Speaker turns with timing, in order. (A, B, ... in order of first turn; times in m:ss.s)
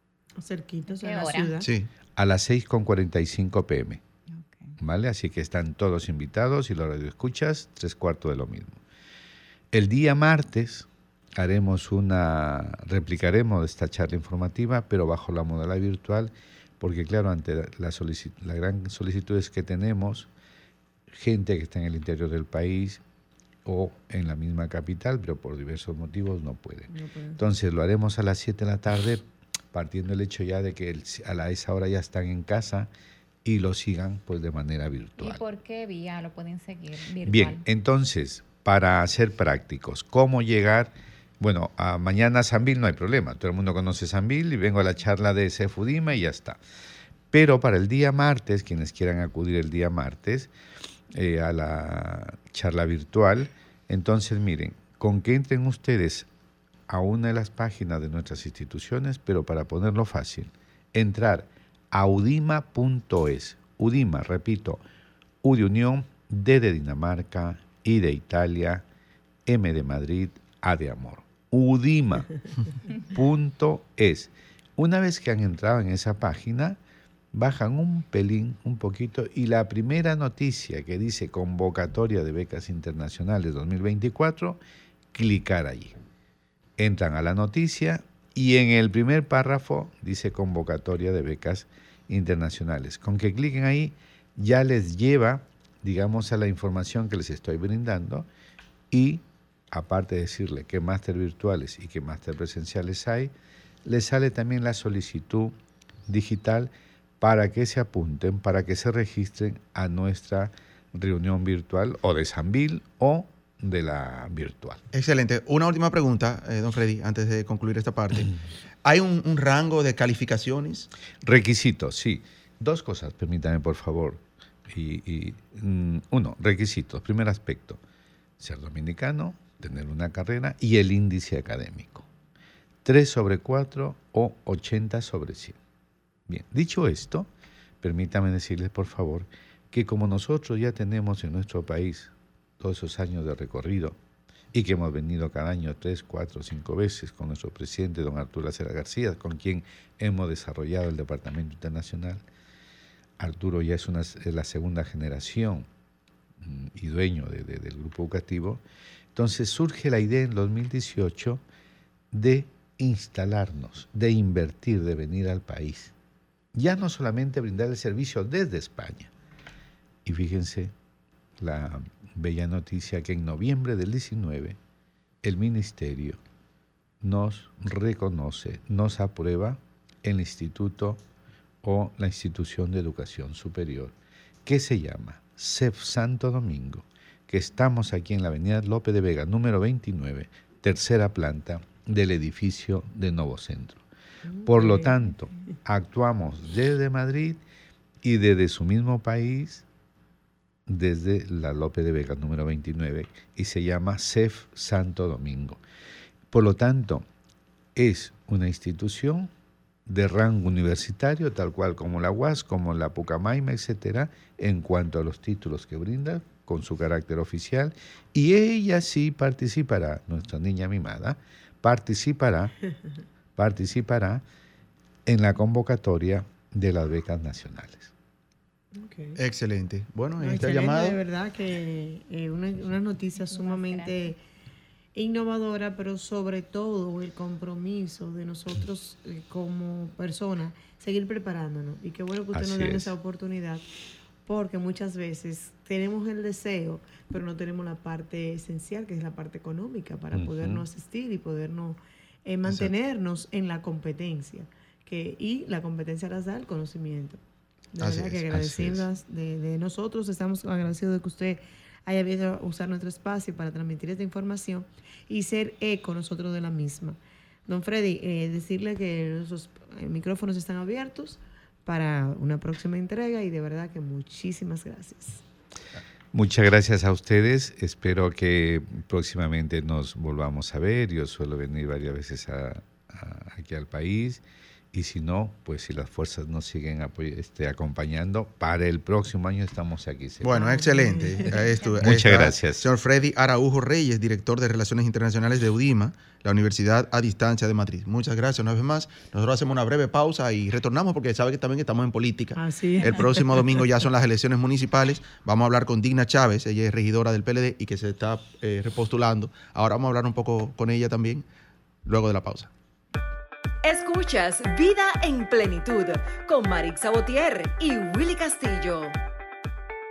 0:00.4-0:01.7 A
0:00.9-0:01.6 B
0:01.6-0:01.9 C
0:02.2-0:04.0 D
0:04.3-0:04.7 B
0:04.8-0:08.8 D
0:09.7-0:20.3 D
0:21.1-0:23.0 D
0:23.6-0:32.9 D
0:26.9-0:27.4 A
0:33.4-0:35.4 D
0:35.2-0:37.6 B
0:37.2-0:46.6 D
0:47.3-0:50.5 D
0:51.1-0:56.3 D
0:56.9-1:04.8 D
1:05.4-1:08.8 D
1:09.4-1:12.4 D
1:13.0-1:16.8 D
1:17.3-1:24.6 D
1:25.1-1:26.0 D
1:26.8-1:38.3 D
1:38.9-1:43.3 D
1:43.8-1:45.5 D
1:46.1-1:54.8 D
1:54.9-1:58.3 C
1:58.8-2:00.9 C
2:01.2-2:07.8 D
2:08.4-2:12.1 D
2:12.8-2:15.6 D
2:16.3-2:17.3 D
2:17.8-2:24.0 D
2:24.5-2:32.2 D
2:33.2-2:35.7 D
2:36.4-2:38.6 D
2:39.1-2:41.4 D
2:42.1-2:45.9 D
2:46.5-2:49.1 D
2:50.0-2:50.7 D
2:51.4-2:54.6 D
2:55.2-2:56.2 D
2:57.0-3:01.0 D
3:01.6-3:03.9 D
3:04.4-3:13.8 D
3:14.3-3:15.1 A
3:14.4-3:17.4 D
3:18.0-3:19.6 D
3:20.7-3:25.6 D
3:26.3-3:27.0 D
3:27.7-3:29.3 D
3:29.9-3:42.5 D
3:43.4-3:44.2 D
3:45.0-3:47.9 D
3:48.8-3:49.2 A
3:49.2-3:51.0 C
3:50.2-3:54.2 A
3:53.3-3:54.1 B
3:54.9-4:03.6 A
4:02.3-4:03.0 D
4:04.2-4:17.2 A
4:10.1-4:10.6 D
4:17.7-4:35.2 A
4:17.8-4:18.2 C
4:18.3-4:18.8 D
4:36.1-4:44.2 D
4:44.7-4:50.4 D
4:50.2-5:11.2 C
4:50.3-4:51.5 A
4:51.8-4:52.7 D
5:02.4-5:03.7 A
5:11.8-5:12.5 C
5:13.6-5:18.9 E